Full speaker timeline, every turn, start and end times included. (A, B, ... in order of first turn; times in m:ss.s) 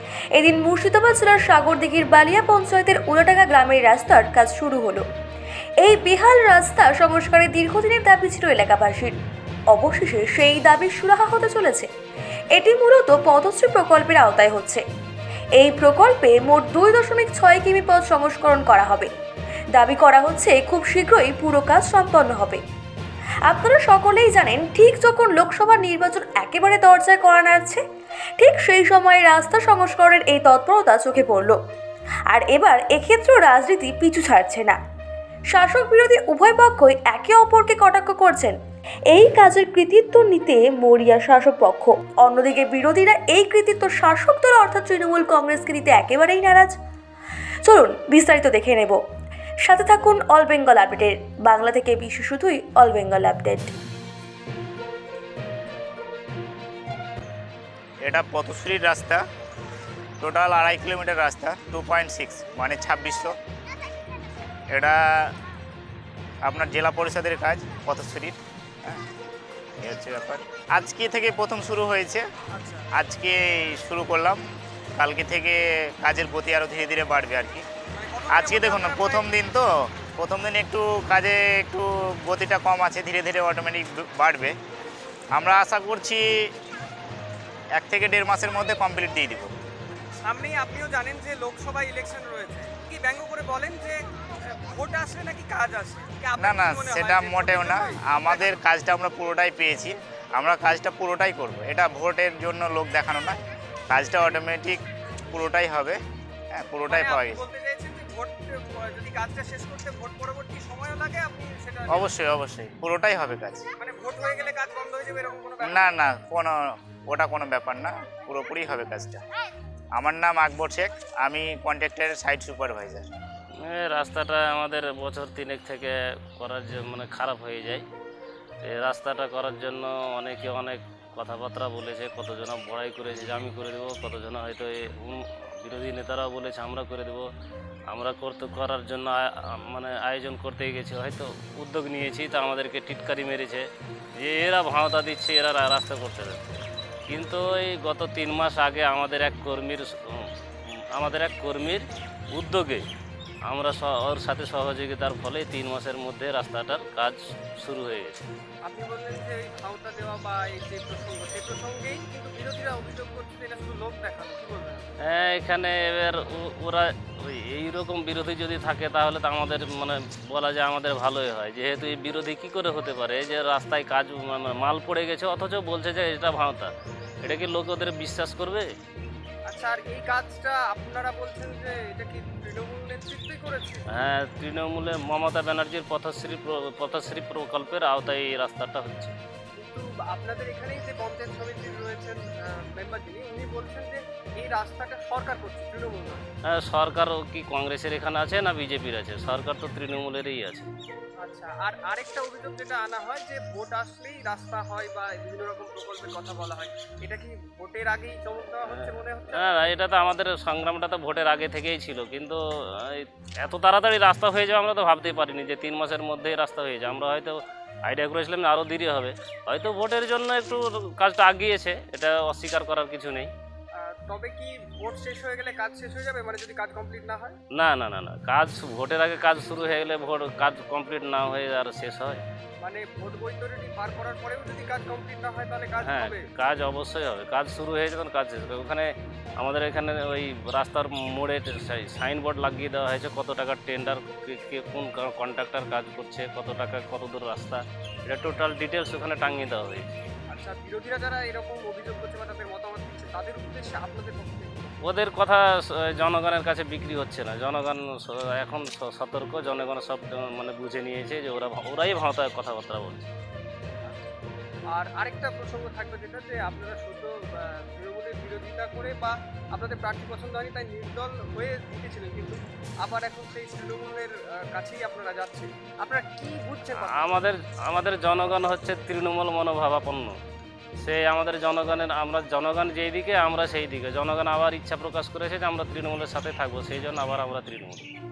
0:00.4-0:05.0 A
0:05.8-0:09.1 A
0:09.7-0:11.9 A
0:12.6-0:14.8 A
0:15.6-0:19.1 A
0:19.7-0:22.6 A
0:23.4-0:27.8 A
0:28.4-0:31.6 A
0:32.3-0:34.8 A
0:35.5-0:38.6 A
0:39.1-0:46.7 A
0:47.6-0:49.0 A
0:49.6-0:53.7 A
0:58.0-0:59.2 B
1:00.2-1:03.4 B
1:04.7-1:05.3 B
1:06.4-1:09.0 B
1:09.8-1:12.2 B
1:12.5-1:12.9 C
1:12.9-1:14.4 B
1:14.9-1:17.6 B
1:17.9-1:19.3 C
1:18.3-1:24.5 B
1:25.4-1:26.3 B
1:27.8-1:29.5 B
1:30.2-1:38.6 C
1:36.4-1:46.0 B
1:46.5-1:47.4 B
1:46.9-1:52.1 C
1:51.9-1:53.7 B
1:53.8-1:56.0 C
1:55.6-1:59.2 B
1:59.9-2:03.0 B
2:03.6-2:07.8 D
2:08.6-2:17.3 D
2:17.9-2:26.4 D
2:27.1-2:30.3 D
2:30.9-2:32.8 D
2:33.4-2:38.2 D
2:38.6-2:44.9 C
2:45.0-2:56.7 D
2:57.2-2:58.7 D
2:59.5-3:03.8 C
3:03.9-3:09.1 D
3:09.6-3:16.2 C
3:16.5-3:20.7 D
3:21.2-3:29.8 C
3:28.6-3:43.3 D
3:43.7-3:47.4 C
3:47.5-3:52.2 D
3:52.6-3:56.3 C
3:55.8-4:09.9 D
4:10.3-4:14.7 C
4:14.8-4:23.1 D
4:23.8-4:24.1 C
4:24.7-4:37.0 C
4:36.7-4:40.2 D
4:40.8-4:47.9 D